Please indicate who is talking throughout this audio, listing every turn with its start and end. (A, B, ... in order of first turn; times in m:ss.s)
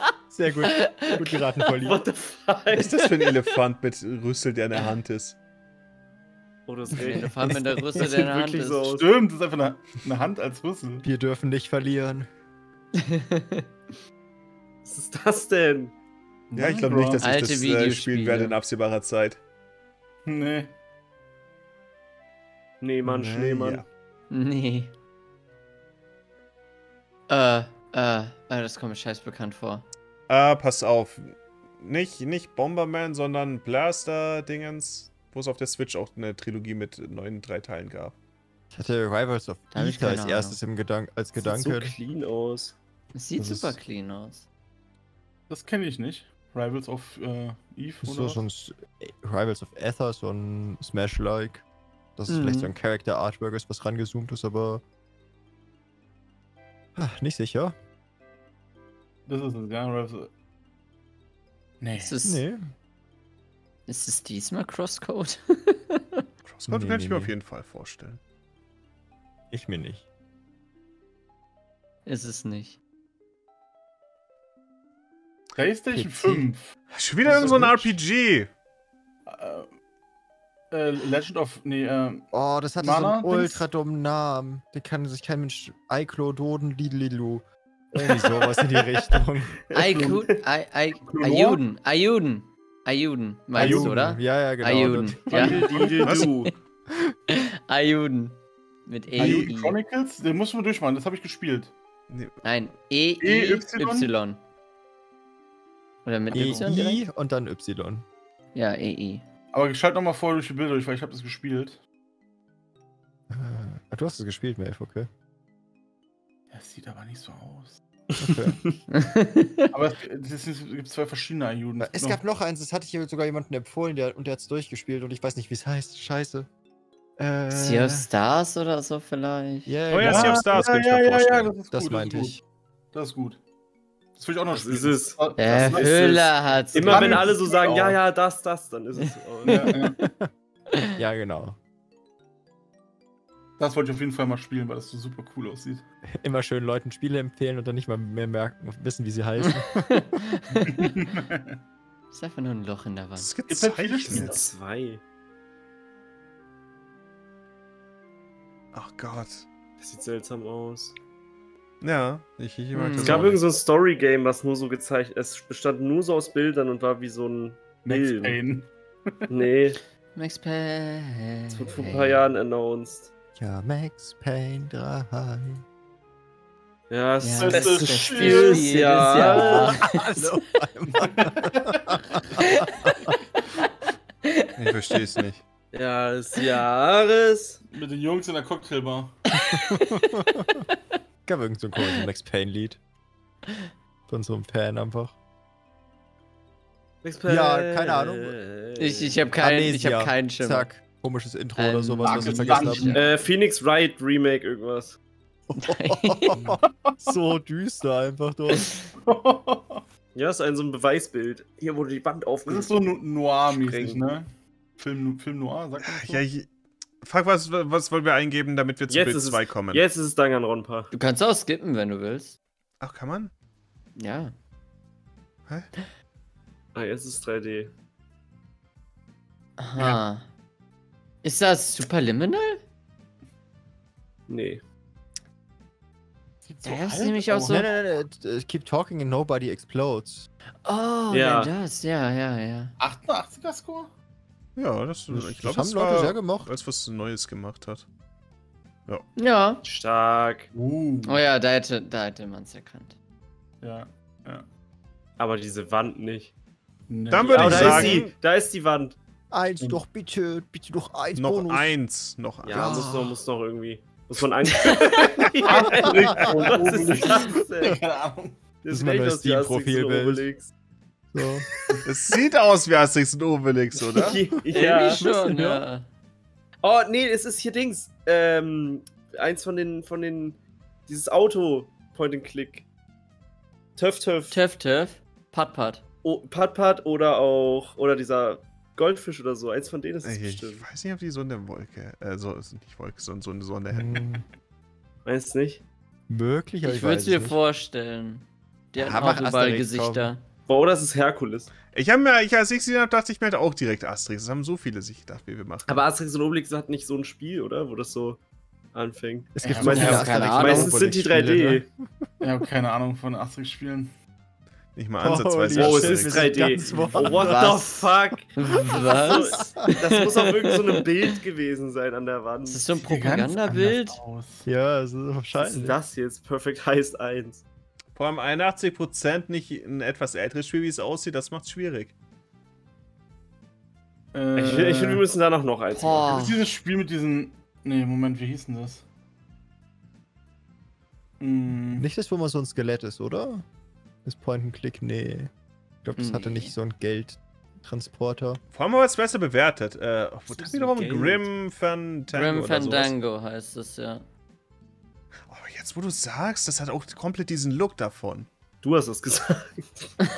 0:00.3-0:02.0 A
0:00.7-0:01.3 B
0:01.8-0:03.1 C
0:02.7-0:05.4 D
0:06.7-0:09.0 C
0:07.0-0:09.0 B
0:08.9-0:11.0 E
0:11.0-0:12.3 A
0:13.0-0:13.7 B
0:14.8-0:15.9 C
0:16.5-0:17.3 E
0:16.5-0:19.4 D
0:17.2-0:18.6 B
0:20.2-0:20.7 E
0:22.8-0:23.8 C
0:23.0-0:23.8 D
0:24.3-0:24.9 B
0:27.3-0:29.8 B
0:30.3-0:38.1 D
0:38.7-0:42.0 A
0:39.7-0:40.6 B
0:41.4-0:42.8 C
0:43.1-0:44.4 B
0:43.4-0:43.8 A
0:45.5-0:48.4 E
0:48.0-0:51.6 A
0:52.2-0:54.8 A
0:52.3-0:52.7 B
0:56.9-0:57.8 A
0:59.3-1:00.3 E
1:01.8-1:02.2 E
1:02.0-1:02.4 B
1:02.2-1:02.7 A
1:03.9-1:06.2 B
1:06.4-1:08.2 D
1:06.7-1:07.3 A
1:09.5-1:10.0 A
1:12.0-1:12.8 B
1:15.5-1:17.8 E
1:15.9-1:16.4 A
1:16.9-1:18.5 D
1:17.2-1:17.9 A
1:19.2-1:19.7 E
1:20.7-1:23.6 E
1:22.3-1:29.6 A
1:27.9-1:30.4 C
1:29.7-1:36.5 B
1:31.0-1:31.6 E
1:33.5-1:35.6 A
1:33.6-1:33.9 E
1:35.3-1:36.5 C
1:35.3-1:36.1 E
1:36.0-1:36.3 D
1:37.3-1:39.8 B
1:39.2-1:41.7 E
1:39.2-1:39.5 D
1:42.1-1:42.4 D
1:42.4-1:44.4 B
1:43.2-1:44.1 E
1:46.0-1:47.0 B
1:46.3-1:48.0 A
1:46.3-1:46.8 E
1:48.5-1:49.2 B
1:49.5-1:51.8 E
1:53.3-1:55.1 A
1:56.5-1:57.8 E
1:58.2-1:58.6 A
1:58.2-1:58.7 C
1:58.9-1:59.7 B
1:59.7-2:02.2 E
2:01.8-2:06.5 A
2:07.2-2:08.1 A
2:07.5-2:09.8 B
2:09.7-2:10.5 A
2:09.9-2:11.5 D
2:10.0-2:12.4 E
2:11.7-2:12.4 A
2:12.9-2:13.4 E
2:14.1-2:17.8 E
2:14.5-2:19.7 C
2:15.4-2:17.3 B
2:17.6-2:18.0 A
2:19.4-2:20.0 E
2:19.4-2:20.1 B
2:20.0-2:20.3 A
2:21.0-2:21.6 A
2:23.6-2:25.8 E
2:26.2-2:30.1 A
2:29.4-2:30.9 B
2:30.6-2:31.6 E
2:32.1-2:33.3 B
2:33.2-2:34.4 D
2:33.5-2:34.4 E
2:34.0-2:35.0 C
2:38.7-2:39.5 D
2:39.8-2:41.0 C
2:41.8-2:43.4 D
2:42.7-2:43.3 B
2:43.0-2:48.4 C
2:47.8-2:49.4 E
2:49.3-2:49.8 C
2:50.2-2:52.3 B
2:51.5-2:53.1 C
2:53.4-2:55.6 A
2:56.9-2:59.8 C
2:57.2-3:00.4 B
2:57.3-2:58.8 E
2:59.3-3:03.2 A
3:01.0-3:01.8 E
3:02.4-3:03.2 B
3:04.2-3:04.5 B
3:04.6-3:05.4 D
3:05.7-3:07.6 C
3:07.7-3:09.2 E
3:09.4-3:11.0 B
3:09.5-3:10.6 A
3:11.2-3:12.8 A
3:14.1-3:15.1 A
3:17.0-3:19.2 C
3:17.2-3:18.4 A
3:18.8-3:20.7 B
3:19.4-3:22.9 A
3:21.6-3:23.1 B
3:22.0-3:23.1 E
3:22.9-3:25.0 C
3:25.5-3:28.7 A
3:25.6-3:26.4 B
3:26.6-3:26.9 E
3:29.0-3:29.8 E
3:30.1-3:34.0 C
3:32.5-3:36.2 E
3:35.8-3:36.5 D
3:37.0-3:39.8 D
3:38.9-3:40.9 C
3:40.9-3:42.4 B
3:42.8-3:43.3 D
3:44.0-3:44.3 B
3:46.7-3:47.7 C
3:49.6-3:50.3 B
3:51.2-3:52.6 B
3:54.3-3:54.6 C
3:56.4-3:57.7 E
3:56.6-3:57.7 B
3:57.5-4:00.3 A
4:00.6-4:02.8 B
4:01.1-4:01.5 C
4:02.8-4:03.9 E
4:04.6-4:07.8 D
4:05.1-4:06.5 A
4:09.2-4:09.6 B
4:09.6-4:10.5 C
4:10.5-4:11.2 E
4:11.0-4:12.9 B
4:13.6-4:14.4 E
4:15.2-4:16.3 C
4:16.9-4:18.0 E
4:17.1-4:18.1 D
4:17.3-4:19.0 C
4:17.4-4:18.0 A
4:19.3-4:21.7 A
4:21.1-4:22.9 D
4:22.4-4:27.8 C
4:22.5-4:23.2 A
4:25.4-4:28.4 E
4:28.6-4:30.5 C
4:28.7-4:30.2 A
4:31.1-4:31.5 A
4:31.8-4:34.2 D
4:33.8-4:35.0 C
4:34.5-4:35.8 B
4:35.0-4:35.6 A
4:36.6-4:42.6 C
4:43.8-4:44.4 C
4:44.3-4:45.8 B
4:46.0-4:50.6 C
4:50.0-4:54.2 D
4:53.7-4:54.2 A
4:55.0-4:55.6 C
4:56.1-4:57.4 A
4:56.6-5:00.2 B
4:58.8-5:00.1 A
5:00.5-5:01.5 C
5:01.7-5:05.8 D
5:05.6-5:08.2 C
5:08.7-5:11.6 C
5:09.4-5:12.1 A
5:09.4-5:10.3 E
5:09.6-5:10.8 B
5:12.2-5:13.9 E
5:14.8-5:16.4 D
5:15.0-5:17.4 A
5:15.5-5:22.7 C
5:17.0-5:20.8 B
5:18.5-5:19.7 A
5:22.5-5:24.0 B
5:22.8-5:24.4 E
5:24.4-5:25.8 A
5:25.3-5:27.4 C
5:27.9-5:31.9 D
5:34.1-5:35.0 E
5:34.4-5:36.2 C
5:35.7-5:36.5 B
5:36.0-5:38.8 E
5:41.2-5:41.9 E
5:41.7-5:43.4 A
5:44.0-5:45.3 A
5:45.8-5:48.4 A
5:46.0-5:46.5 B
5:48.5-5:52.9 D
5:50.3-5:51.2 C
5:52.1-5:54.0 B
5:55.3-5:58.3 D
5:58.6-6:00.0 C